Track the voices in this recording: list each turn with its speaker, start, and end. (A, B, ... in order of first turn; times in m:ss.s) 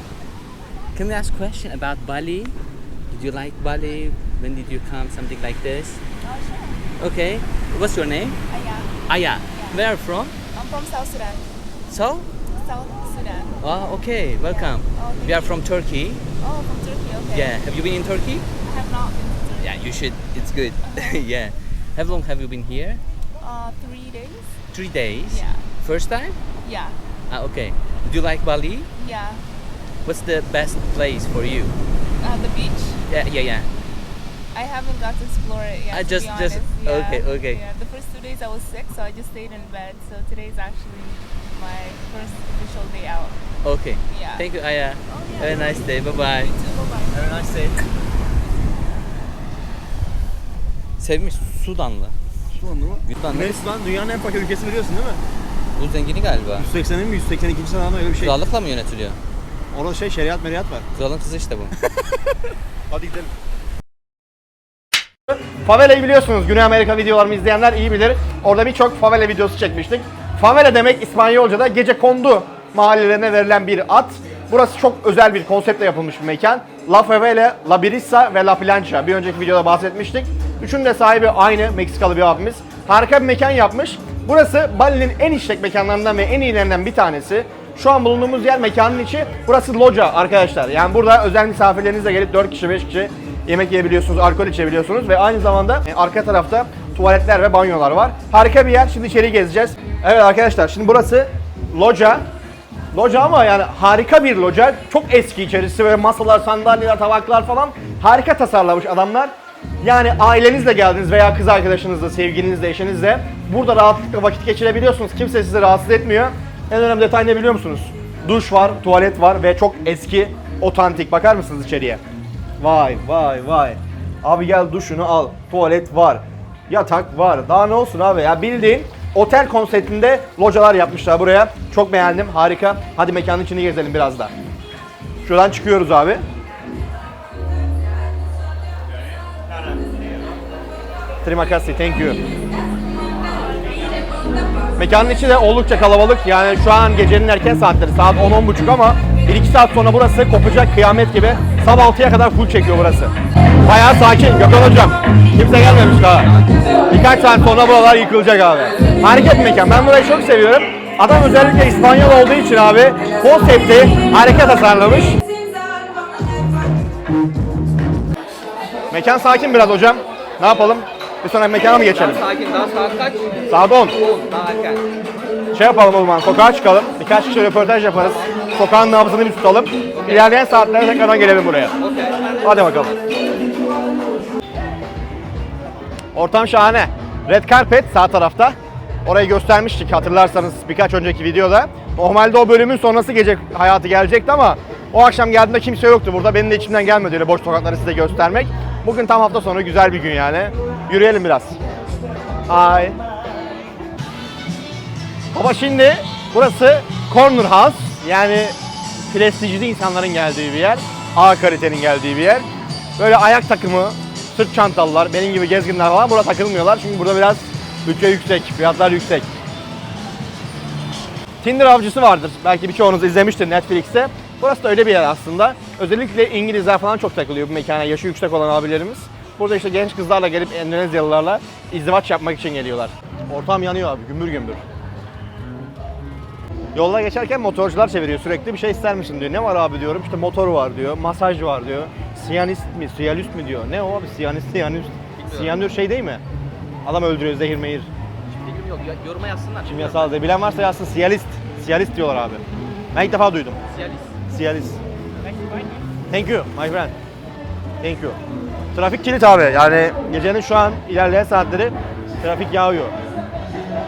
0:00.9-0:02.6 A
0:03.1-0:06.0 A
0:06.2-0:06.8 B
0:07.0-0:08.4 A
0:08.5-0:09.8 B
0:09.1-0:10.3 A
0:10.5-0:11.4 B
0:11.9-0:12.3 A
0:12.5-0:13.6 B
0:13.6-0:16.2 A
0:14.4-0:15.6 B
0:16.4-0:17.6 B
0:17.3-0:18.5 A
0:18.6-0:19.8 B
0:19.6-0:23.0 A
0:20.9-0:21.2 B
0:23.4-0:24.5 B
0:24.7-0:26.4 A
0:25.3-0:25.7 B
0:26.6-0:27.0 B
0:27.3-0:28.9 A
0:29.0-0:29.4 B
0:30.0-0:31.8 A
0:32.2-0:33.0 B
0:33.1-0:33.7 A
0:34.5-0:43.4 B
0:35.9-0:37.6 A
0:43.6-0:46.6 A
0:44.1-0:44.5 B
0:46.4-0:47.0 B
0:47.1-0:47.7 C
0:51.0-0:52.2 A
0:52.5-0:55.2 C
0:53.1-0:53.6 A
0:55.8-0:56.7 A
0:56.6-0:58.4 C
0:58.2-0:59.2 A
0:59.7-1:00.9 C
1:00.9-1:01.7 A
1:02.9-1:03.3 C
1:05.3-1:42.2 C
1:42.9-2:02.0 C
2:02.6-2:14.3 C
2:15.2-2:16.2 C
2:21.2-2:22.2 C
2:24.8-2:33.1 C
2:33.6-2:36.3 C
2:36.9-2:45.2 C
2:48.9-2:52.2 C
2:51.8-2:54.9 A
2:53.5-2:54.0 C
2:55.5-3:01.7 C
2:58.0-2:58.5 A
2:59.9-3:00.3 A
3:01.8-3:02.7 A
3:02.4-3:02.9 C
3:06.1-3:21.6 C
3:22.5-3:23.0 C
3:25.3-3:28.6 C
3:29.1-3:32.5 C
3:33.0-3:39.3 C
3:41.4-3:54.6 C
3:56.7-4:06.2 C
4:05.2-4:05.6 A
4:06.8-4:07.9 C
4:08.3-4:10.2 A
4:09.6-4:13.6 C
4:13.7-4:14.1 A
4:14.3-4:14.8 C
4:15.2-4:15.7 A
4:16.1-4:17.0 C
4:17.8-4:18.2 C
4:18.7-4:22.9 C